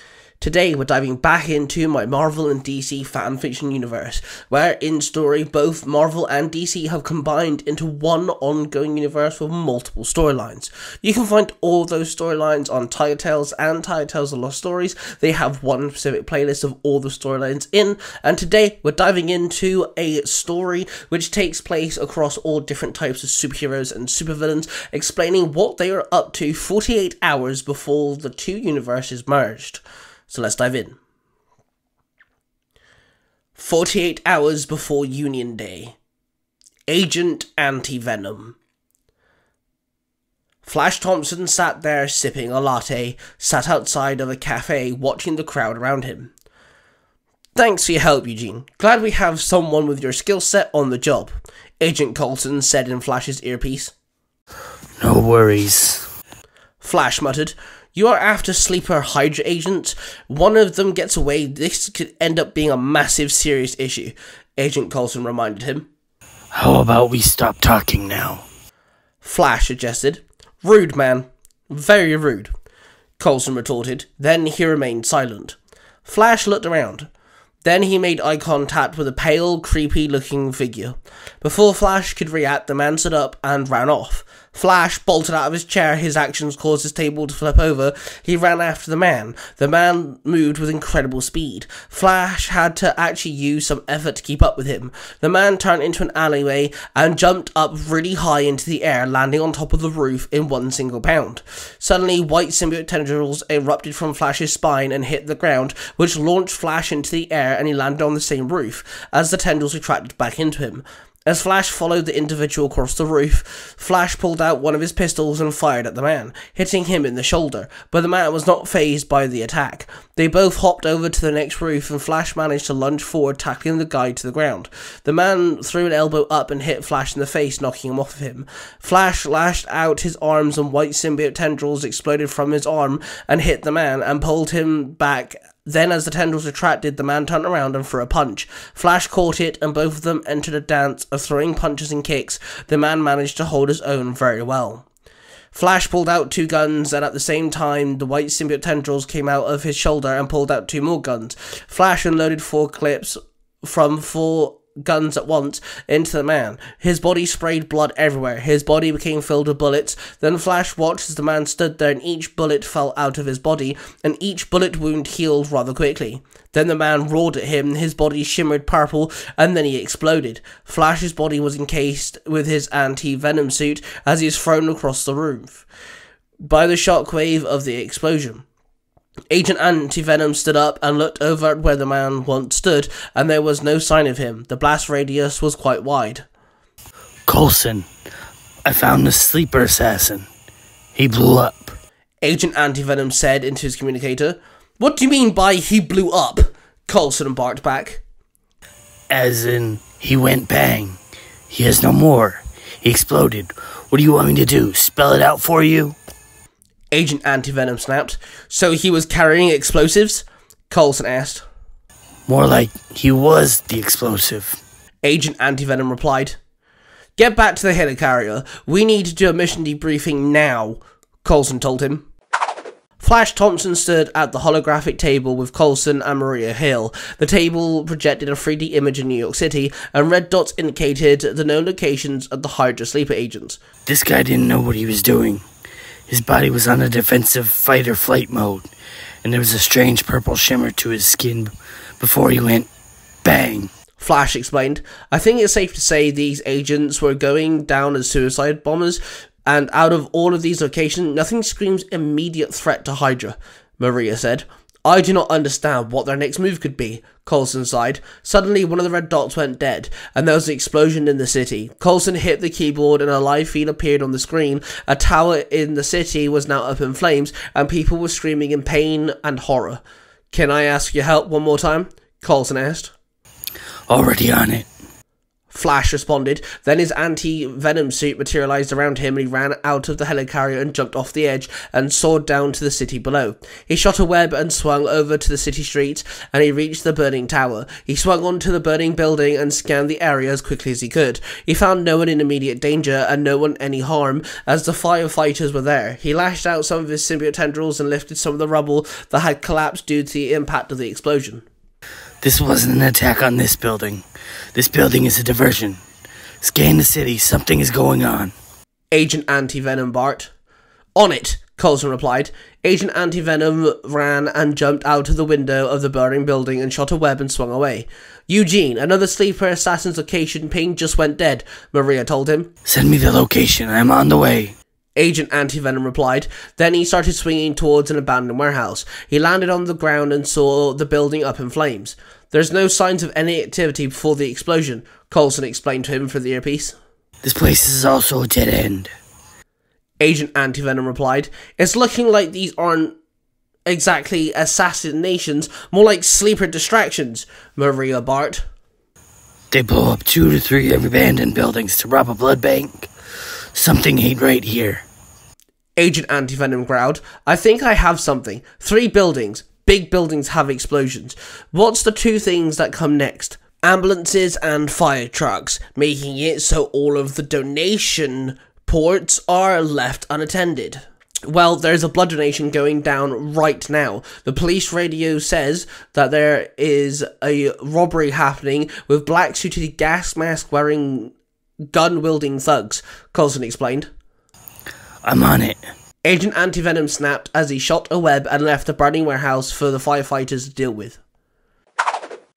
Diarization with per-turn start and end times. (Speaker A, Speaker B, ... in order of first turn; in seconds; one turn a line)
Speaker A: 0.4-31.0
Speaker A: 33.5-36.0
Speaker A: 36.9-38.6
Speaker A: 40.6-46.3
Speaker A: 47.5-53.9
Speaker B: 55.0-56.1
Speaker A: 56.8-65.9
Speaker B: 66.5-68.4
Speaker A: 69.2-72.5
Speaker A: 73.2-77.1
Speaker A: 77.6-144.8
Speaker A: 145.5-175.6
Speaker A: 176.4-178.4
Speaker A: 179.3-186.2
Speaker B: 187.3-187.9
Speaker B: 188.6-190.3
Speaker B: 190.9-191.8
Speaker A: 192.2-198.0
Speaker B: 199.1-201.0
Speaker B: 201.5-205.9
Speaker A: 206.9-211.4
Speaker B: 212.3-214.6
Speaker A: 215.0-216.4
Speaker A: 217.2-222.1
Speaker A: 223.0-233.6
Speaker B: 233.8-235.4
Speaker B: 236.1-238.7
Speaker B: 239.2-242.7
Speaker B: 243.2-243.7
Speaker A: 244.0-272.9
Speaker B: 273.9-274.7
Speaker A: 275.5-301.4
Speaker B: 302.2-305.8
Speaker B: 306.4-308.3
Speaker A: 308.9-310.3
Speaker A: 310.9-322.5
Speaker B: 322.6-324.5
Speaker A: 324.9-336.8
Speaker B: 337.2-338.9
Speaker A: 340.0-342.9
Speaker A: 343.7-348.4
Speaker B: 349.5-352.9
Speaker B: 353.5-354.8
Speaker A: 355.8-381.1
Speaker A: 381.7-383.9
Speaker B: 385.0-385.6
Speaker A: 386.0-391.0